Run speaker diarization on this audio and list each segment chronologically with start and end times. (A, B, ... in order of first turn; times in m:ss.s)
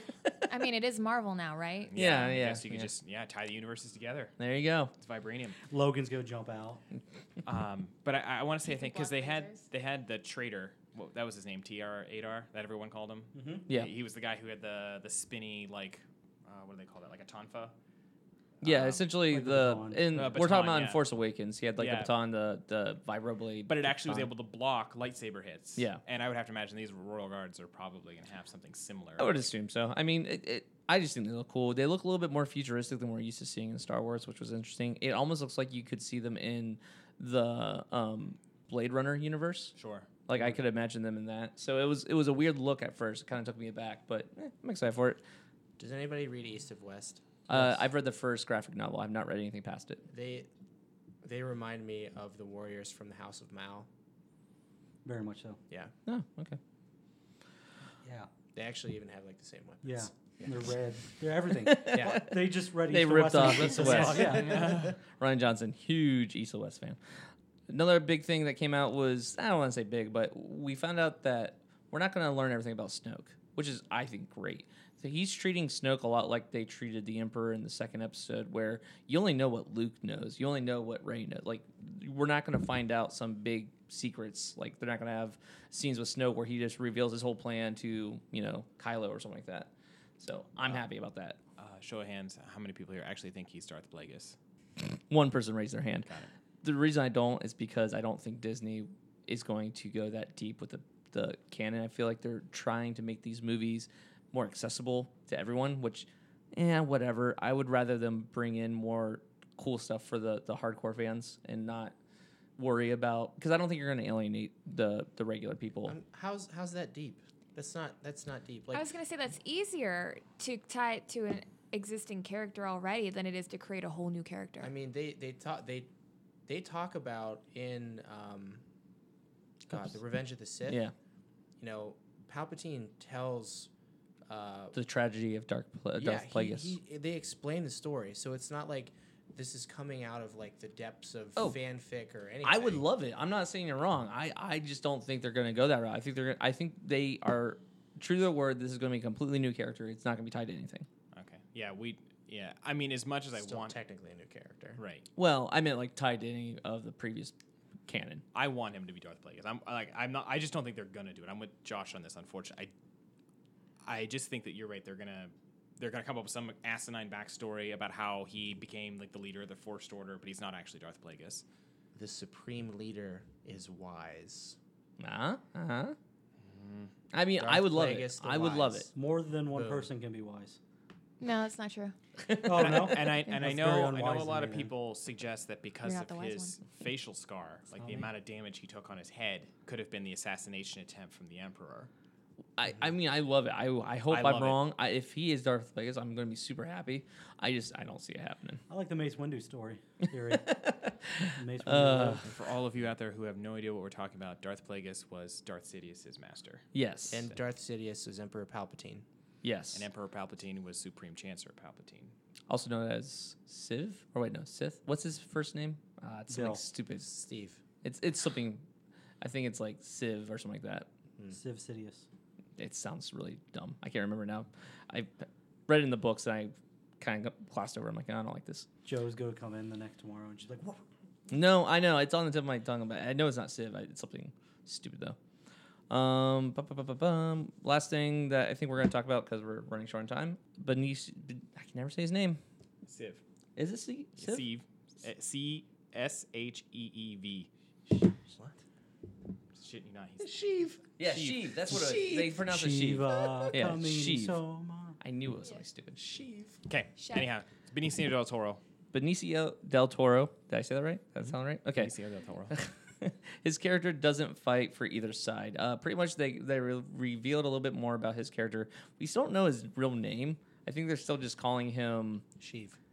0:00.4-0:01.9 A
0:01.9-0:04.3 B
0:01.9-0:02.9 C
0:04.4-0:04.9 C
0:05.0-0:05.6 B
0:05.7-0:06.8 D
0:07.4-0:17.7 B
0:08.6-0:09.6 A
0:13.3-0:13.6 D
0:18.6-0:19.0 B
0:18.6-0:24.3 C
0:19.3-0:20.4 D
0:20.1-0:21.0 B
0:21.8-0:22.1 B
0:23.7-0:29.4 B
0:25.8-0:26.0 C
0:29.2-0:45.2 C
0:39.8-0:40.1 B
0:45.8-0:47.2 E
0:47.5-0:50.0 C
0:50.1-0:50.5 E
0:51.2-0:53.9 E
0:55.0-0:55.6 D
0:56.1-0:56.6 C
0:58.0-0:58.3 D
0:58.5-1:00.7 E
0:59.8-1:04.8 D
1:01.6-1:07.0 C
1:01.8-1:02.3 E
1:03.8-1:04.9 E
1:04.4-1:04.9 B
1:07.7-1:31.4 C
1:31.6-1:34.4 B
1:34.8-1:36.1 C
1:36.0-1:36.3 B
1:36.6-1:51.9 C
1:52.6-1:56.0 C
1:55.9-1:58.9 E
1:58.7-2:04.7 A
2:04.6-2:05.9 E
2:06.5-2:08.6 E
2:09.7-2:10.8 E
2:10.7-2:10.9 C
2:11.6-2:13.7 E
2:14.2-2:14.8 E
2:14.7-2:16.8 C
2:16.0-2:22.8 E
2:22.4-2:30.9 C
2:31.1-2:33.8 B
2:33.3-2:34.8 E
2:34.8-2:35.0 B
2:35.2-2:37.3 C
2:37.9-2:38.2 C
2:38.3-2:42.7 B
2:43.8-2:51.4 B
2:51.9-2:54.6 E
2:55.0-2:56.0 C
2:56.4-2:56.9 B
2:57.1-2:58.9 C
2:57.4-2:58.9 E
2:58.9-3:00.6 D
2:59.5-2:59.9 E
3:01.2-3:01.9 A
3:02.3-3:02.9 C
3:02.4-3:04.7 D
3:02.5-3:11.9 B
3:05.8-3:06.6 A
3:07.8-3:08.1 D
3:12.6-3:18.6 C
3:14.1-3:14.6 B
3:18.7-3:20.7 D
3:20.5-3:22.3 C
3:21.3-3:22.2 D
3:22.2-3:26.6 B
3:26.7-3:27.3 C
3:27.1-3:29.0 E
3:29.4-3:29.8 C
3:29.7-3:32.1 B
3:32.5-3:37.1 C
3:36.3-3:36.6 D
3:37.0-3:37.6 E
3:37.8-3:38.6 C
3:39.2-3:40.9 C
3:41.3-3:42.1 D
3:42.6-3:48.7 C
3:48.8-3:50.8 D
3:51.3-3:55.2 C
3:55.9-4:02.4 C
4:02.8-4:03.2 B
4:03.6-4:04.4 C
4:04.2-4:07.5 B
4:08.3-4:08.6 E
4:09.5-4:10.5 B
4:10.2-4:14.4 C
4:11.0-4:11.5 B
4:11.7-4:12.3 E
4:11.8-4:15.0 D
4:15.0-4:16.0 C
4:16.0-4:16.6 E
4:16.7-4:18.6 B
4:17.0-4:17.3 A
4:18.9-4:22.0 C
4:21.7-4:22.5 B
4:22.5-4:32.2 C
4:32.4-4:32.8 E